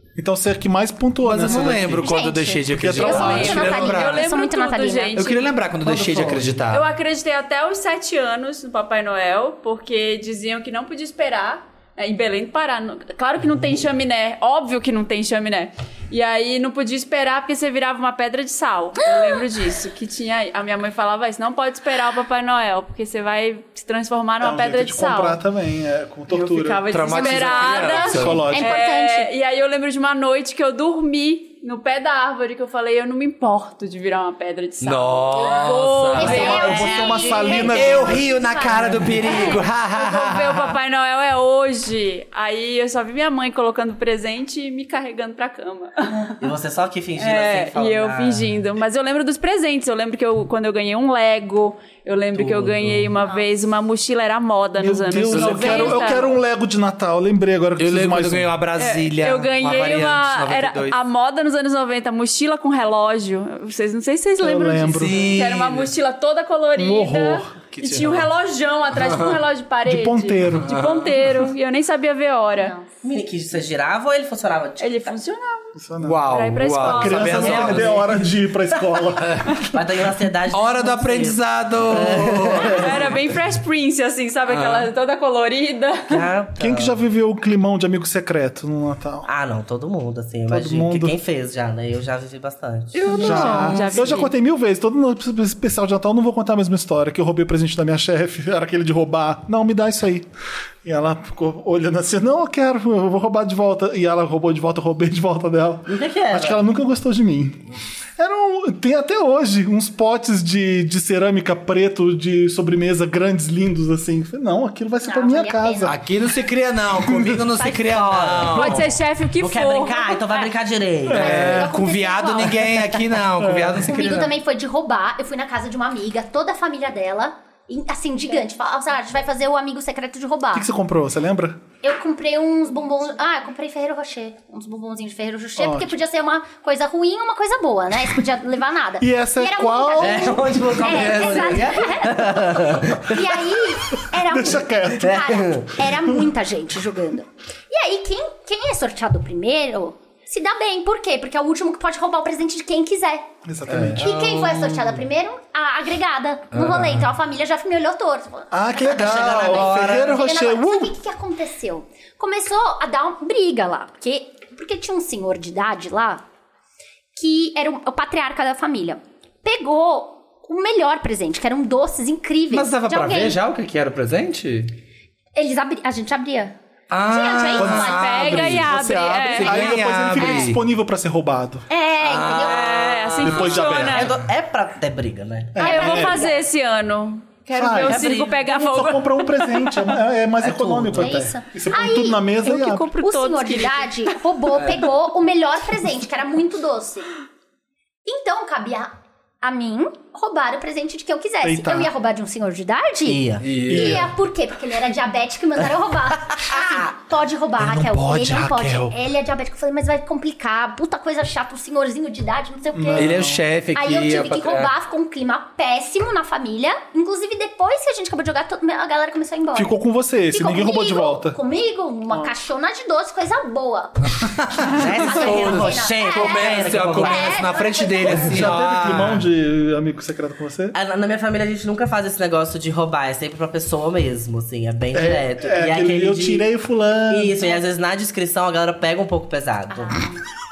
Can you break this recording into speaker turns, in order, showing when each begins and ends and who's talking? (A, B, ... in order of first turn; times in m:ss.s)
0:00.2-0:02.2 A
0:01.2-0:04.3 B
0:02.0-0:05.3 C
0:02.7-0:03.8 A
0:03.0-0:05.5 D
0:05.2-0:06.8 B
0:06.1-0:06.4 A
0:06.7-0:25.4 D
0:24.4-0:27.4 A
0:26.3-0:37.4 D
0:26.9-0:28.5 B
0:27.2-0:29.3 C
0:28.0-0:28.8 A
0:34.8-0:36.7 B
0:36.2-0:39.6 C
0:36.2-0:38.4 A
0:36.6-0:37.6 E
0:37.5-0:40.8 B
0:39.3-0:46.4 D
0:46.4-0:48.5 E
0:47.2-0:56.4 D
0:52.4-0:52.6 E
0:52.8-0:53.0 B
0:54.8-0:58.5 A
0:55.3-0:56.2 B
0:57.8-1:01.0 B
0:58.8-1:12.7 D
1:04.4-1:05.5 A
1:04.9-1:05.9 B
1:06.8-1:07.5 A
1:07.7-1:08.3 B
1:08.9-1:09.4 B
1:09.9-1:10.8 A
1:10.6-1:11.2 B
1:12.6-1:12.9 C
1:13.0-1:15.2 E
1:14.8-1:15.8 D
1:15.8-1:19.6 A
1:16.0-1:18.1 B
1:16.3-1:17.9 D
1:17.4-1:18.0 E
1:19.2-1:19.6 B
1:19.7-1:23.1 E
1:20.5-1:23.0 B
1:22.6-1:26.3 D
1:24.5-1:24.9 B
1:26.1-1:27.0 E
1:26.6-1:29.3 A
1:29.2-1:33.7 E
1:30.5-1:31.2 A
1:33.0-1:34.1 B
1:33.2-1:40.3 A
1:33.3-1:34.3 D
1:40.8-1:47.6 A
1:45.9-1:46.6 E
1:48.2-1:56.0 A
1:55.0-1:56.0 C
1:55.8-1:58.9 B
1:56.9-1:57.5 A
1:57.5-1:58.8 E
1:58.5-2:00.5 D
1:59.4-2:01.7 E
2:01.1-2:01.6 A
2:01.1-2:04.3 B
2:01.1-2:02.8 C
2:03.4-2:03.8 A
2:03.8-2:10.7 C
2:10.5-2:11.6 A
2:11.8-2:33.2 C
2:15.6-2:15.9 A
2:19.0-2:21.0 A
2:20.0-2:23.4 E
2:21.1-2:21.5 B
2:24.1-2:26.2 A
2:25.0-2:25.7 E
2:33.4-2:34.1 A
2:33.7-2:34.1 E
2:34.0-2:46.2 C
2:34.0-2:34.8 B
2:36.5-2:37.1 B
2:38.5-2:40.9 A
2:39.1-2:40.2 E
2:47.2-2:53.4 C
2:52.5-2:54.7 B
2:55.4-2:56.6 C
2:56.9-2:58.7 B
2:57.1-2:58.3 C
2:57.6-3:01.6 A
2:57.8-2:59.8 D
2:59.3-3:00.6 B
3:01.7-3:02.9 C
3:02.0-3:03.8 B
3:02.4-3:04.2 D
3:03.2-3:04.1 A
3:03.7-3:05.7 E
3:05.5-3:06.2 A
3:05.6-3:06.4 C
3:05.6-3:09.9 D
3:07.5-3:12.9 A
3:07.9-3:08.4 E
3:10.4-3:11.1 E
3:11.0-3:12.4 C
3:12.4-3:14.1 D
3:13.0-3:17.1 C
3:18.0-3:39.8 C
3:21.4-3:21.9 A
3:23.1-3:23.5 E
3:23.4-3:24.1 B
3:23.7-3:24.0 A
3:26.4-3:26.9 E
3:27.6-3:29.0 A
3:32.7-3:33.4 A
3:33.0-3:34.7 B
3:39.6-3:41.4 A
3:40.3-3:48.5 C
3:44.2-3:49.2 B
3:44.7-3:47.5 E
3:48.0-3:50.8 A
3:50.7-3:56.4 E
3:54.9-3:57.5 A
3:57.1-4:00.0 E
3:59.7-4:00.2 C